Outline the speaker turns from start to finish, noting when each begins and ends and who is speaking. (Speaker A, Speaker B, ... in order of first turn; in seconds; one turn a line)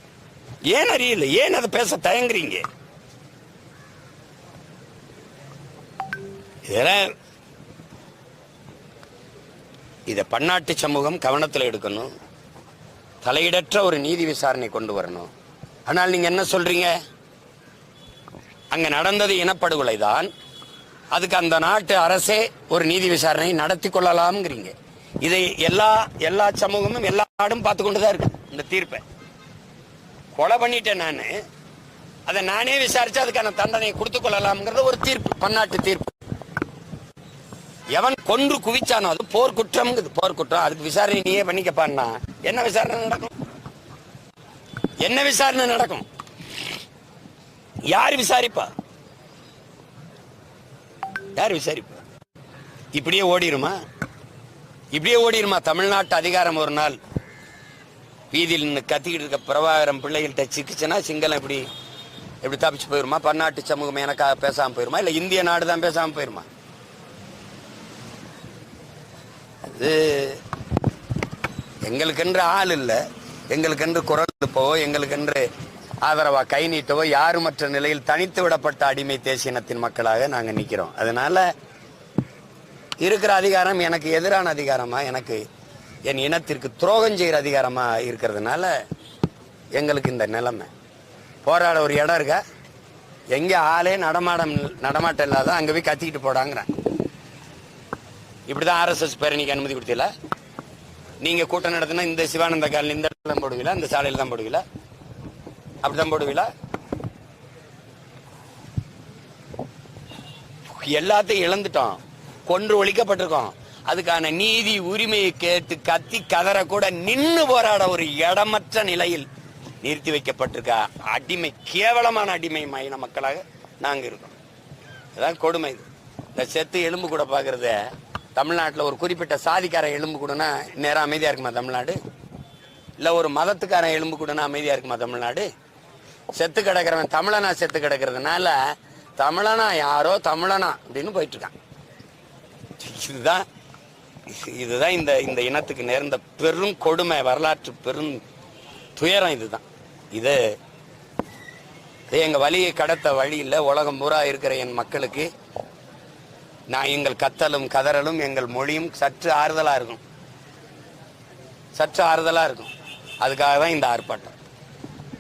Speaker A: 0.7-2.6
Speaker A: 6.7-7.1
Speaker A: 10.1-12.1
Speaker A: 13.2-15.3
Speaker A: 15.9-17.0
Speaker A: 18.7-20.3
Speaker A: 21.1-29.0
Speaker A: 30.4-31.4
Speaker A: 32.3-36.1
Speaker A: 37.9-43.3
Speaker A: 45.0-46.0
Speaker A: 47.9-48.7
Speaker A: 51.4-52.0
Speaker A: 52.9-53.8
Speaker A: 54.9-57.0
Speaker A: 58.3-61.7
Speaker A: 62.4-66.5
Speaker A: 69.7-70.4
Speaker A: 71.8-75.5
Speaker A: 76.0-81.5
Speaker A: 83.0-85.4
Speaker A: 86.0-88.8
Speaker A: 89.8-90.7
Speaker A: 91.5-92.4
Speaker A: 93.3-96.7
Speaker A: 98.5-100.1
Speaker A: 101.2-104.6
Speaker A: 105.8-106.5
Speaker A: 110.7-119.3
Speaker A: 119.8-124.4
Speaker A: 125.2-132.0
Speaker A: 133.0-135.5
Speaker A: 136.3-141.5
Speaker A: 142.8-143.5
Speaker A: 144.3-148.2
Speaker A: 149.0-150.6
Speaker A: 152.1-155.3
Speaker A: 156.7-160.0
Speaker A: 161.8-162.7
Speaker A: 163.2-164.3